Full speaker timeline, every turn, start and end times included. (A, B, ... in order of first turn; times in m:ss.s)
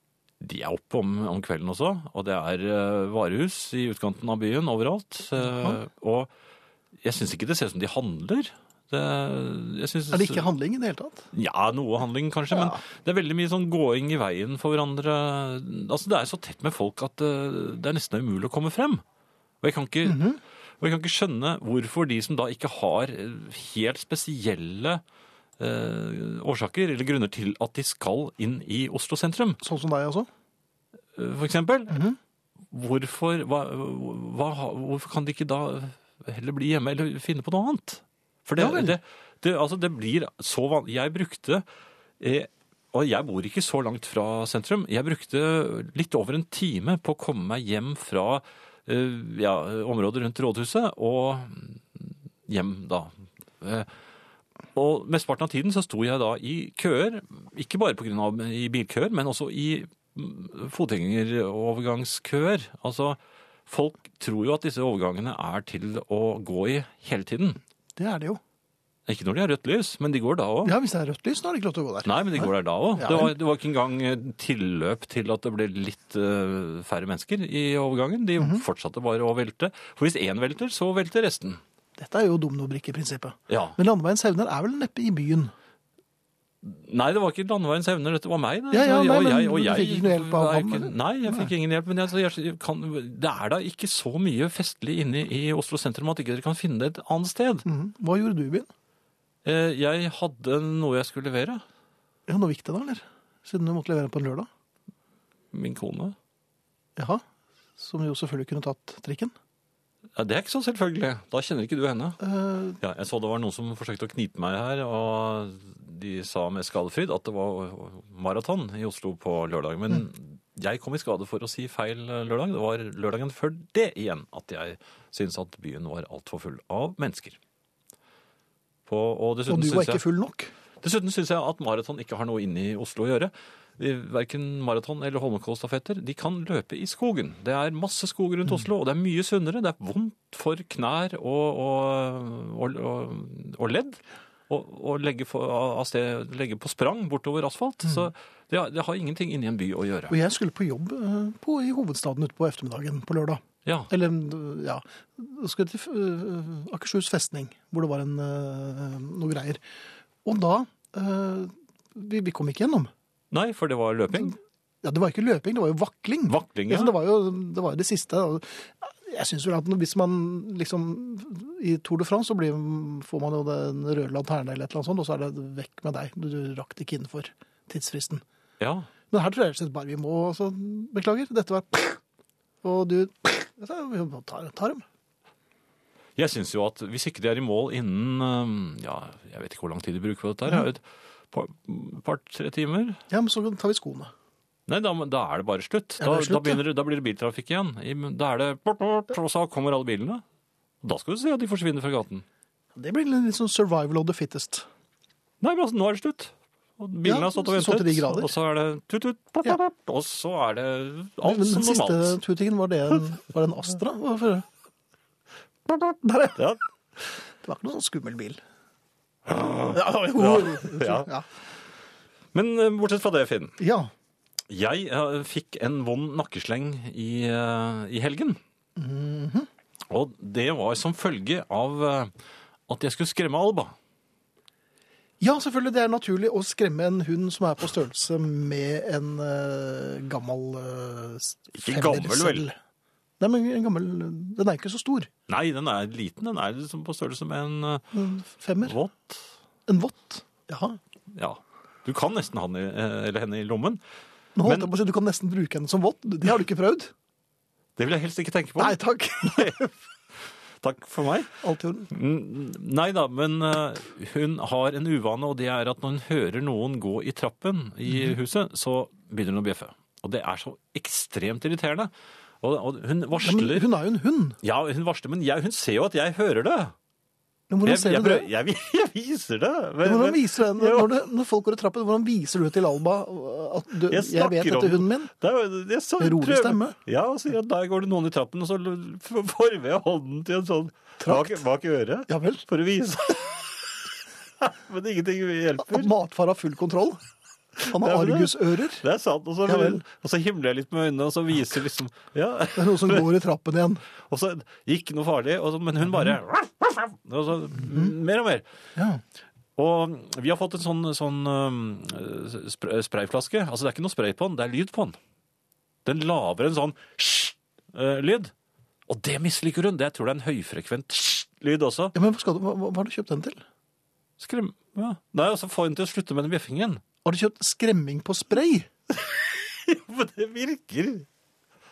0:00.4-0:06.3 A
0:05.4-0:05.8 B
0:07.0-0:10.5 A
0:10.1-0:11.3 B
0:11.3-0:19.0 A
0:12.5-0:12.8 B
0:19.6-0:20.2 A
0:20.0-0:20.4 B
0:20.8-0:25.0 A
0:25.6-0:29.6 A
0:29.6-0:30.3 B
0:31.2-0:32.0 A
0:31.9-0:32.2 B
0:32.7-0:41.6 A
0:38.6-0:39.0 B
0:42.2-0:53.9 A
0:54.7-1:07.6 A
1:08.0-1:08.4 B
1:09.1-1:10.8 A
1:10.6-1:13.3 B
1:12.0-1:21.6 A
1:18.4-1:18.6 B
1:22.0-1:25.5 B
1:23.5-1:23.8 A
1:26.6-1:37.6 A
1:28.7-1:31.5 B
1:37.6-1:38.7 B
1:39.4-1:41.6 A
1:42.3-1:44.5 B
1:45.5-1:46.2 A
1:47.0-1:47.2 B
1:47.8-1:49.3 B
1:50.2-1:52.2 A
1:52.2-1:52.8 B
1:52.8-2:07.4 A
2:08.9-2:10.0 A
2:09.5-2:10.5 B
2:10.8-2:30.2 A
2:30.1-2:39.6 B
2:40.2-2:42.9 B
2:43.3-2:44.4 A
2:44.1-2:58.2 B
2:46.3-2:46.9 A
2:58.6-2:58.9 A
2:59.1-3:02.0 B
3:02.6-3:04.8 B
3:06.2-3:13.0 A
3:13.1-3:14.1 B
3:14.7-3:20.2 A
3:16.0-3:16.6 B
3:20.8-3:22.2 A
3:22.7-3:24.6 B
3:25.4-3:32.2 A
3:27.0-3:28.3 B
3:31.2-3:34.4 B
3:35.7-3:36.4 B
3:36.3-3:36.6 A
3:37.4-3:38.4 B
3:39.3-3:41.1 A
3:39.7-3:41.2 B
3:42.3-3:43.6 A
3:43.6-3:43.9 B
3:44.5-3:48.4 A
3:48.8-3:49.5 B
3:49.9-3:52.1 A
3:52.7-3:53.7 A
3:55.2-4:02.6 B
4:01.5-4:02.5 A
4:03.2-4:05.1 B
4:05.3-4:08.0 A
4:07.9-4:08.8 B
4:08.6-4:09.2 A
4:09.7-4:10.8 B
4:11.1-4:13.8 A
4:14.4-4:16.9 B
4:14.4-4:14.7 A
4:17.8-4:19.7 A
4:18.6-4:19.7 B
4:20.6-4:21.4 A
4:21.4-4:21.9 B
4:21.9-4:31.9 A
4:32.4-4:33.7 A
4:33.2-4:34.4 B
4:34.4-4:36.7 A
4:37.5-4:38.3 B
4:37.6-4:40.9 A
4:39.8-4:45.1 B
4:43.9-4:53.8 A
4:46.0-4:46.8 B
4:51.0-4:51.4 B
4:52.1-4:52.4 B
4:54.4-4:55.9 A
4:55.6-4:57.0 B
4:57.6-4:58.8 B
4:57.6-5:03.1 A
4:59.4-4:59.8 B
5:02.5-5:03.8 B
5:04.0-5:08.4 A
5:08.8-5:09.0 B
5:09.6-5:15.0 A
5:15.8-5:18.3 A
5:18.9-5:21.9 A
5:21.9-5:23.4 B
5:24.2-5:26.8 A
5:27.0-5:28.7 B
5:28.9-5:31.0 A